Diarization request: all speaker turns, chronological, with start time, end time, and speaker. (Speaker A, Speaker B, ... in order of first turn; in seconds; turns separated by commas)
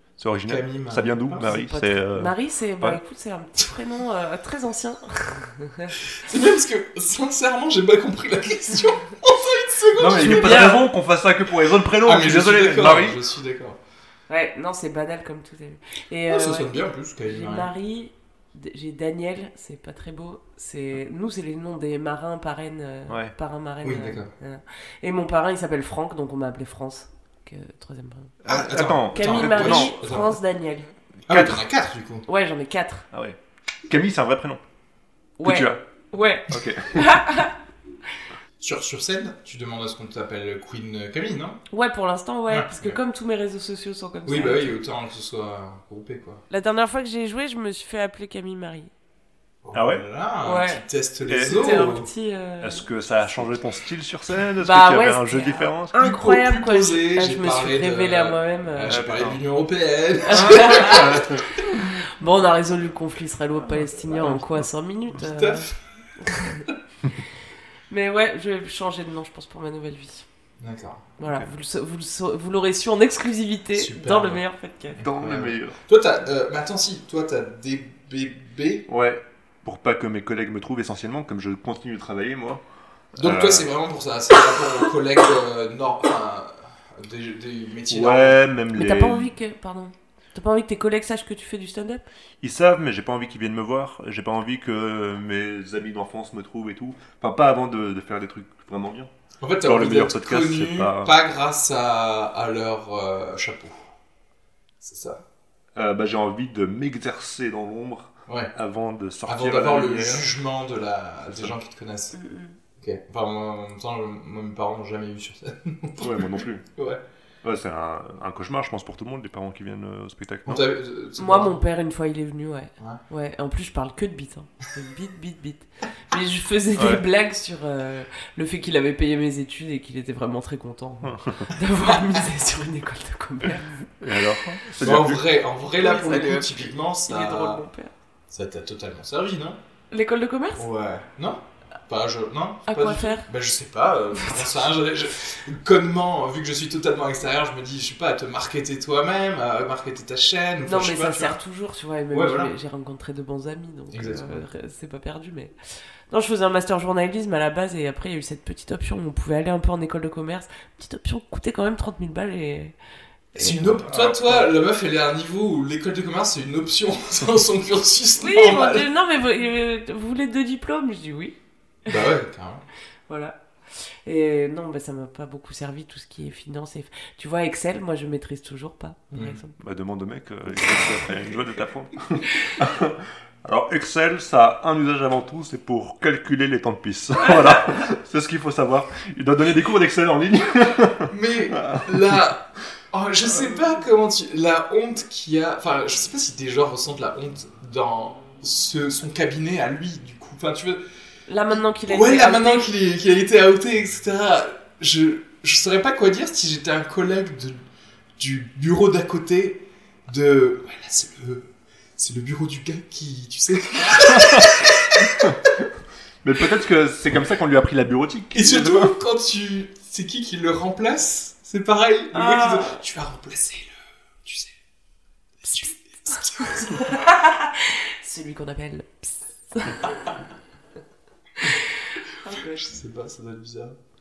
Speaker A: 0.2-3.0, Speaker B: 0.5-1.6, Speaker C: 1.4-6.0, Speaker B: 6.1-10.8, Speaker A: 10.0-13.2, Speaker C: 10.2-10.8, Speaker B: 12.0-13.8, Speaker C: 14.3-28.4, Speaker B: 16.3-17.7, Speaker A: 23.1-23.3, Speaker B: 23.8-24.3, Speaker A: 28.4-30.1, Speaker B: 28.4-30.4, Speaker C: 29.1-30.9, Speaker A: 31.3-31.6, Speaker B: 31.3-32.2, Speaker C: 32.2-33.0, Speaker A: 33.1-34.6, Speaker C: 35.4-37.5, Speaker A: 35.4-35.8, Speaker A: 36.5-37.1, Speaker B: 38.6-41.6, Speaker C: 41.7-44.8, Speaker B: 42.5-43.0, Speaker B: 44.2-46.4, Speaker C: 46.5-48.9, Speaker B: 49.6-52.1, Speaker A: 49.7-50.0, Speaker C: 50.4-50.8, Speaker A: 51.3-51.7, Speaker C: 51.4-52.9, Speaker A: 52.6-55.9, Speaker C: 54.6-59.0, Speaker B: 55.9-61.6, Speaker A: 58.9-59.4, Speaker C: 60.3-65.7, Speaker A: 60.3-61.4, Speaker A: 64.2-64.6, Speaker B: 65.2-65.7, Speaker C: 66.2-66.7, Speaker C: 67.9-70.2, Speaker B: 70.6-71.1, Speaker C: 71.2-75.0, Speaker B: 73.8-74.4, Speaker B: 74.9-78.8, Speaker A: 75.0-75.8, Speaker A: 78.9-82.6, Speaker A: 83.1-83.7, Speaker B: 83.2-88.4, Speaker A: 87.9-89.3, Speaker C: 88.7-92.0, Speaker A: 92.4-99.1, Speaker B: 99.4-103.8, Speaker A: 99.6-101.1, Speaker B: 104.8-105.2, Speaker A: 105.8-110.3, Speaker B: 108.3-108.5, Speaker B: 109.2-112.2, Speaker C: 112.1-112.6, Speaker B: 112.8-117.0, Speaker A: 116.0-116.6, Speaker A: 117.4-120.6, Speaker B: 120.5-121.6, Speaker C: 121.2-133.8, Speaker A: 126.7-127.0, Speaker A: 131.0-131.5, Speaker A: 133.9-135.2, Speaker B: 134.8-137.6, Speaker C: 135.8-137.9, Speaker B: 138.3-139.6, Speaker C: 139.9-140.7, Speaker B: 140.6-151.4, Speaker C: 142.7-143.2, Speaker C: 144.2-144.5, Speaker C: 150.6-155.5, Speaker B: 152.1-152.5, Speaker B: 153.9-154.4, Speaker C: 156.1-162.7, Speaker C: 163.3-163.7, Speaker B: 163.3-168.9, Speaker A: 163.8-164.5, Speaker C: 168.2-171.3, Speaker B: 171.9-172.6, Speaker C: 173.1-173.3, Speaker C: 174.0-179.6, Speaker B: 179.1-179.4, Speaker A: 179.6-192.2, Speaker B: 191.1-200.8, Speaker C: 201.3-202.7, Speaker B: 201.5-207.6, Speaker B: 208.2-215.3, Speaker A: 214.1-214.5, Speaker A: 216.2-218.9, Speaker B: 218.3-223.7, Speaker C: 222.1-222.8, Speaker B: 224.2-224.5, Speaker B: 225.4-226.9, Speaker C: 226.4-229.9, Speaker C: 232.2-232.6, Speaker B: 232.5-233.8